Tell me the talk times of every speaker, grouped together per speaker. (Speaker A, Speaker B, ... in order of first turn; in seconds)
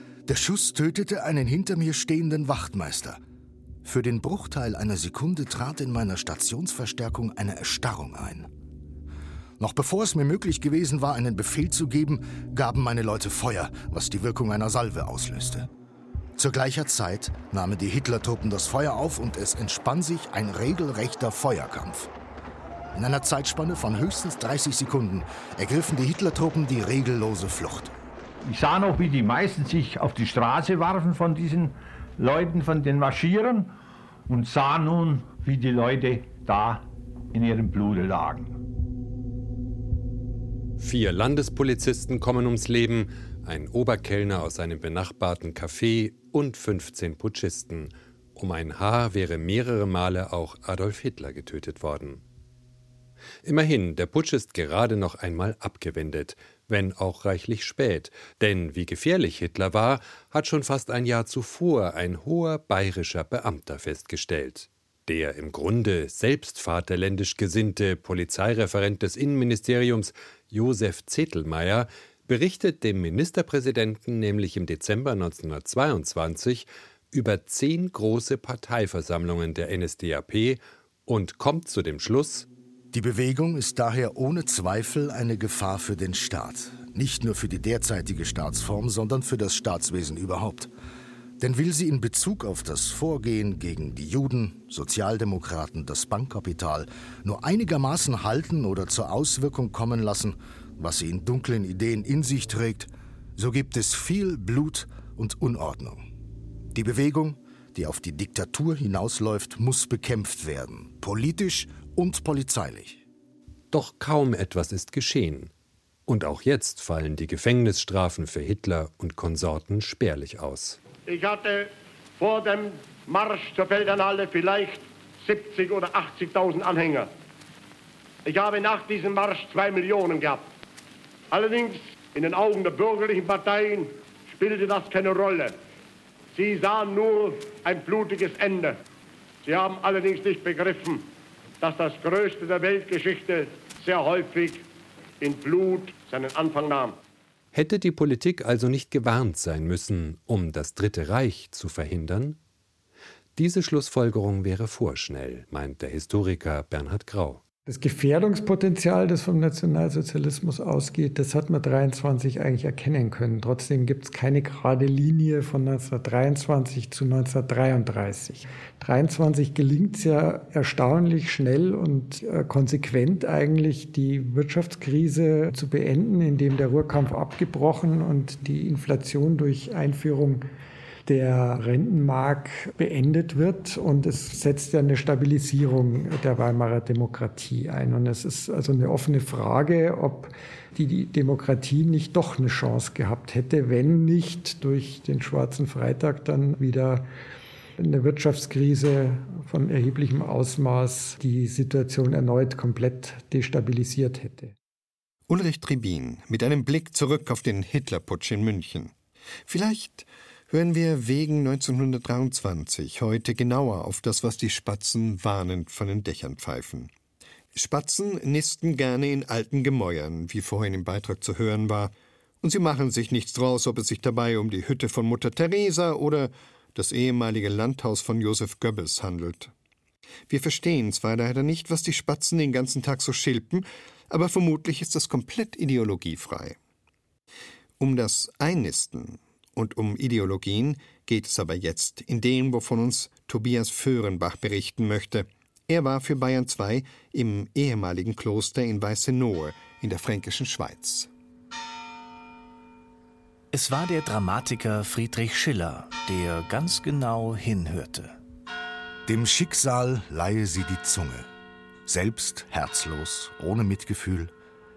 Speaker A: 0.3-3.2, 3.8-8.5, 9.6-15.7, 16.4-22.1, 22.9-27.9, 82.9-90.7, 91.4-106.0, 106.7-113.0, 259.1-261.3, 261.9-264.3
Speaker B: 28.4-33.7, 34.3-38.6
Speaker C: 40.8-52.2, 53.4-82.5, 113.7-115.5, 116.1-120.8, 147.5-152.4, 153.3-157.4
Speaker D: 121.1-127.1, 128.2-130.4, 131.3-135.5, 136.3-138.8, 139.4-141.0, 141.6-144.6, 145.2-146.9
Speaker E: 157.7-180.4, 181.1-197.0, 197.8-204.5
Speaker F: 205.3-208.9, 209.5-216.9, 217.5-229.5, 230.3-236.6, 237.8-251.1
Speaker G: 253.5-258.2